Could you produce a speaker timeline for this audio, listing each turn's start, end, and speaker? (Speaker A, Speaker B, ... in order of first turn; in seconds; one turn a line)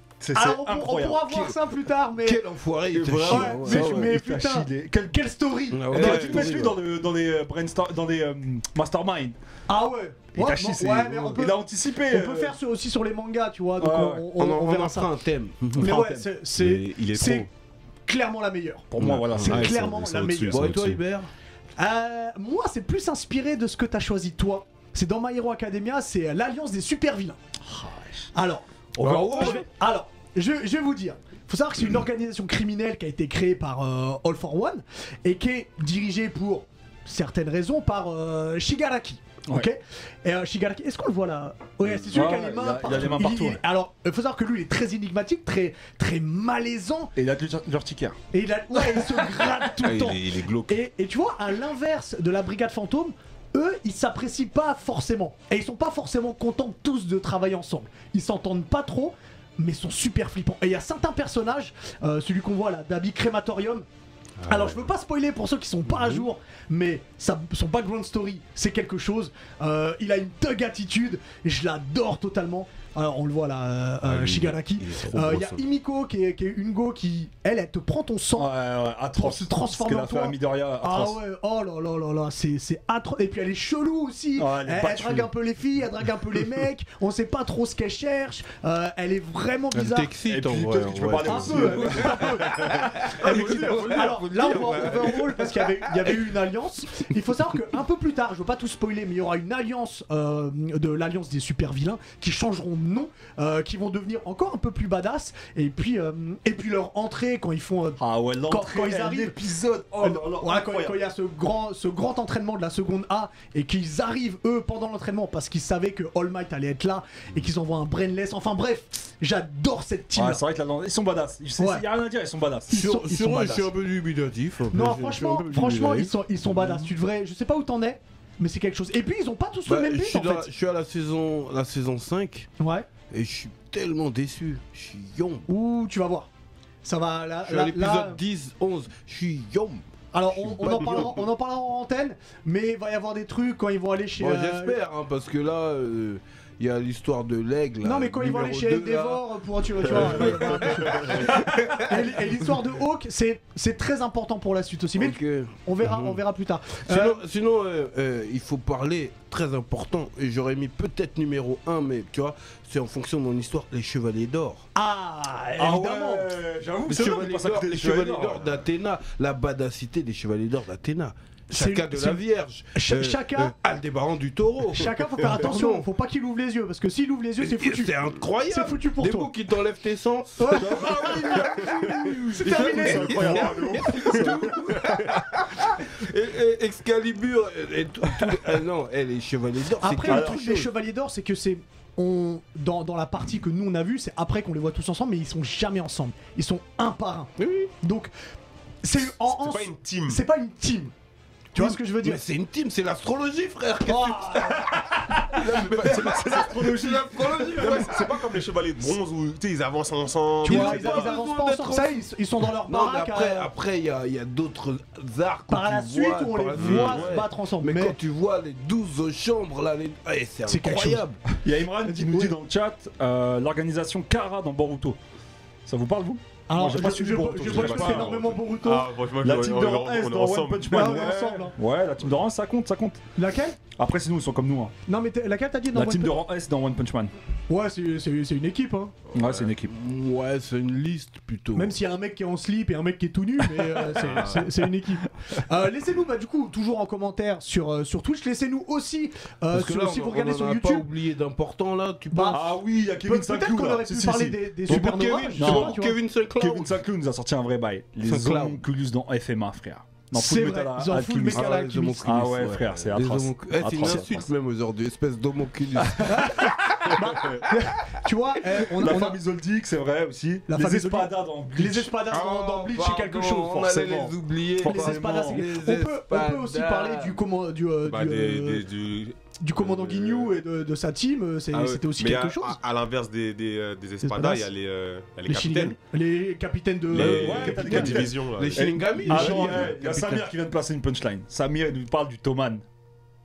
Speaker A: 0.2-1.4
Speaker B: 0.3-2.4
Speaker C: 2.2-4.2
Speaker A: 3.0-5.2
Speaker B: 3.3-6.5
Speaker C: 5.7-6.8
Speaker A: 5.9-9.4
Speaker B: 9.7-15.1
Speaker A: 10.3-12.6
Speaker A: 13.8-14.2
Speaker C: 14.4-15.9
Speaker A: 15.8-16.3
Speaker B: 15.8-17.5
Speaker D: 16.6-17.5
Speaker B: 18.1-18.9
Speaker A: 18.9-19.9
Speaker C: 19.0-19.6
Speaker D: 19.0-21.0
Speaker B: 19.5-20.7
Speaker C: 20.5-21.3
Speaker B: 21.8-27.4
Speaker A: 27.6-28.3
Speaker B: 28.3-47.1
Speaker A: 29.0-29.6
Speaker C: 29.1-29.6
Speaker A: 42.1-43.6
Speaker A: 47.2-48.2
Speaker B: 48.3-63.9
Speaker D: 49.8-50.8
Speaker D: 64.4-64.8
Speaker B: 64.5-78.5
Speaker D: 74.1-75.6
Speaker A: 78.4-81.2
Speaker B: 79.2-90.1
Speaker A: 84.4-85.3
Speaker C: 89.7-96.1
Speaker A: 90.3-92.4
Speaker B: 91.2-109.4
Speaker D: 92.5-95.0
Speaker A: 108.0-111.0
Speaker B: 110.0-120.4
Speaker A: 120.1-123.4
Speaker B: 121.6-121.8
Speaker B: 122.7-123.7
Speaker C: 122.7-126.8
Speaker B: 124.7-130.5
Speaker C: 129.7-132.5
Speaker B: 132.6-132.9
Speaker C: 133.1-135.5
Speaker B: 135.5-136.3
Speaker B: 136.8-138.2
Speaker C: 137.4-139.8
Speaker B: 140.1-144.8
Speaker C: 144.2-152.0
Speaker B: 147.8-157.2
Speaker D: 149.9-151.2
Speaker C: 155.0-156.2
Speaker C: 156.9-164.7
Speaker B: 164.8-166.3
Speaker A: 165.6-168.5
Speaker C: 166.9-175.9
Speaker B: 171.5-172.2
Speaker B: 172.7-173.5
Speaker B: 174.7-179.3
Speaker C: 177.4-181.3
Speaker B: 180.4-184.2
Speaker A: 180.5-184.8
Speaker C: 182.5-190.7
Speaker B: 189.8-198.1
Speaker A: 190.1-190.7
Speaker C: 197.4-197.7
Speaker B: 198.8-200.9
Speaker D: 199.2-200.2
Speaker B: 201.5-202.2
Speaker C: 201.6-204.8
Speaker B: 203.9-204.7
Speaker A: 204.7-208.2
Speaker C: 205.3-208.1
Speaker D: 207.5-211.1
Speaker C: 210.4-212.1
Speaker B: 210.4-213.5
Speaker C: 212.7-221.2
Speaker B: 215.5-218.0
Speaker D: 216.6-217.2
Speaker B: 220.5-221.1
Speaker A: 221.4-225.0
Speaker B: 221.8-222.3
Speaker A: 225.7-228.2
Speaker B: 226.5-228.9
Speaker D: 227.3-231.1
Speaker A: 229.2-233.0
Speaker B: 230.7-231.6
Speaker B: 233.2-233.6
Speaker A: 233.8-234.8
Speaker B: 234.9-236.2
Speaker A: 235.7-237.1
Speaker B: 237.5-238.9
Speaker A: 239.1-239.7
Speaker D: 239.1-239.5
Speaker C: 239.7-241.8
Speaker B: 241.6-250.9
Speaker D: 244.0-244.5
Speaker C: 249.5-252.5
Speaker B: 252.1-255.9
Speaker A: 252.3-255.8
Speaker C: 254.7-256.8
Speaker A: 256.4-264.3
Speaker C: 258.1-258.6
Speaker B: 260.1-262.2
Speaker C: 261.3-266.4
Speaker B: 266.1-269.2
Speaker A: 268.7-272.0
Speaker B: 270.5-278.7
Speaker C: 272.1-277.2
Speaker A: 274.6-275.5
Speaker D: 277.9-280.4
Speaker B: 279.4-282.6
Speaker D: 281.6-285.8
Speaker B: 284.0-284.5
Speaker B: 285.3-288.1
Speaker D: 286.9-289.5
Speaker A: 286.9-292.6
Speaker C: 287.3-290.3
Speaker B: 289.1-289.5